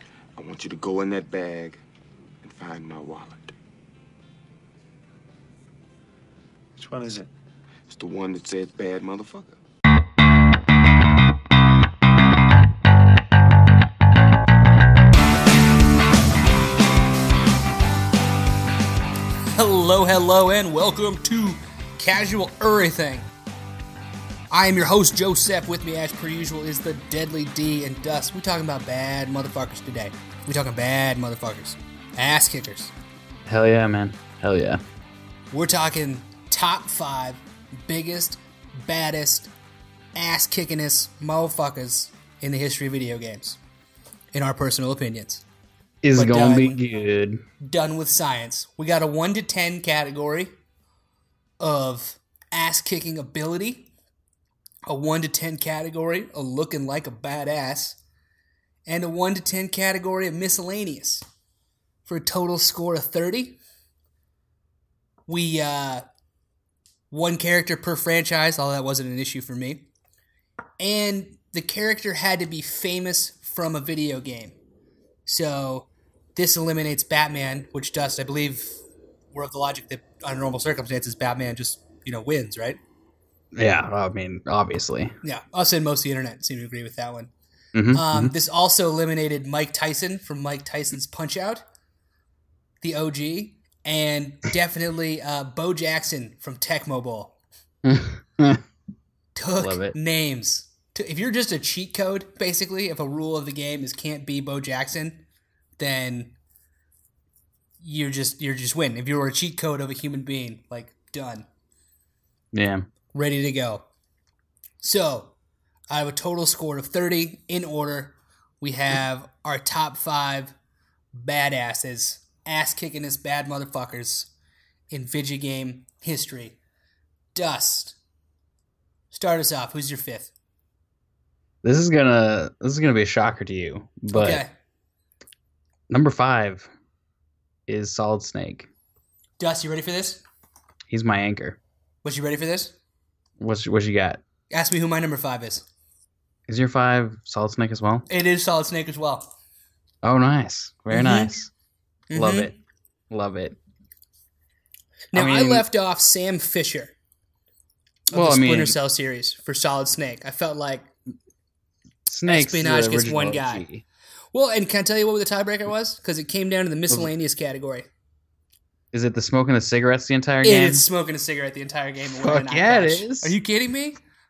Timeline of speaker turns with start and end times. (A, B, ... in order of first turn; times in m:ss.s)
0:00.4-0:01.8 A
0:02.4-0:03.5 A
0:06.8-0:07.3 A
0:07.9-0:09.6 A
0:19.5-0:23.3 B
0:24.5-0:32.9 B
0:33.4-0:34.8 C
0:35.5-0:39.5 B
0:40.1-0:43.6 B
0:44.3-0:45.4 B
0:46.0-0:47.4 C
0:46.1-0:46.8 B
0:47.6-0:50.5 B
0:51.6-0:53.9 B
0:54.9-0:58.0 B
0:58.8-1:01.2 B
1:02.0-1:03.6 B
1:05.3-1:06.0 B
1:07.1-1:09.9 B
1:10.8-1:14.5 B
1:15.2-1:18.8 B
1:19.3-1:22.8 B
1:23.6-1:25.1 C
1:25.2-1:27.3 B
1:27.7-1:28.3 C
1:27.9-1:31.6 B
1:32.8-1:37.4 B
1:37.8-1:38.6 C
1:39.3-1:45.2 B
1:39.6-1:39.9 C
1:45.8-1:46.3 B
1:47.8-1:51.5 B
1:52.5-1:52.8 C
1:53.1-1:53.8 B
1:54.8-1:55.3 B
1:55.9-2:00.5 B
2:01.1-2:04.3 B
2:04.9-2:06.6 B
2:07.3-2:08.0 B
2:09.1-2:10.3 B
2:11.6-2:14.4 C
2:14.1-2:14.5 B
2:15.9-2:16.7 C
2:17.7-2:18.7 C
2:19.4-2:20.2 B
2:20.9-2:21.6 C
2:22.0-2:22.8 B
2:23.4-2:24.2 C
2:24.5-2:25.6 B
2:26.5-2:28.1 C
2:28.1-2:29.3 B
2:30.0-2:31.5 C
2:30.9-2:31.3 B
2:32.1-2:32.5 B
2:32.1-2:32.5 C
2:33.1-2:33.6 C
2:35.1-2:36.9 B
2:35.1-2:35.6 C
2:38.1-2:40.9 B
2:38.1-2:38.8 C
2:42.1-2:43.8 C
2:42.2-2:43.7 B
2:44.3-2:47.9 B
2:48.9-2:50.8 C
2:50.4-2:54.0 B
2:52.1-2:53.3 C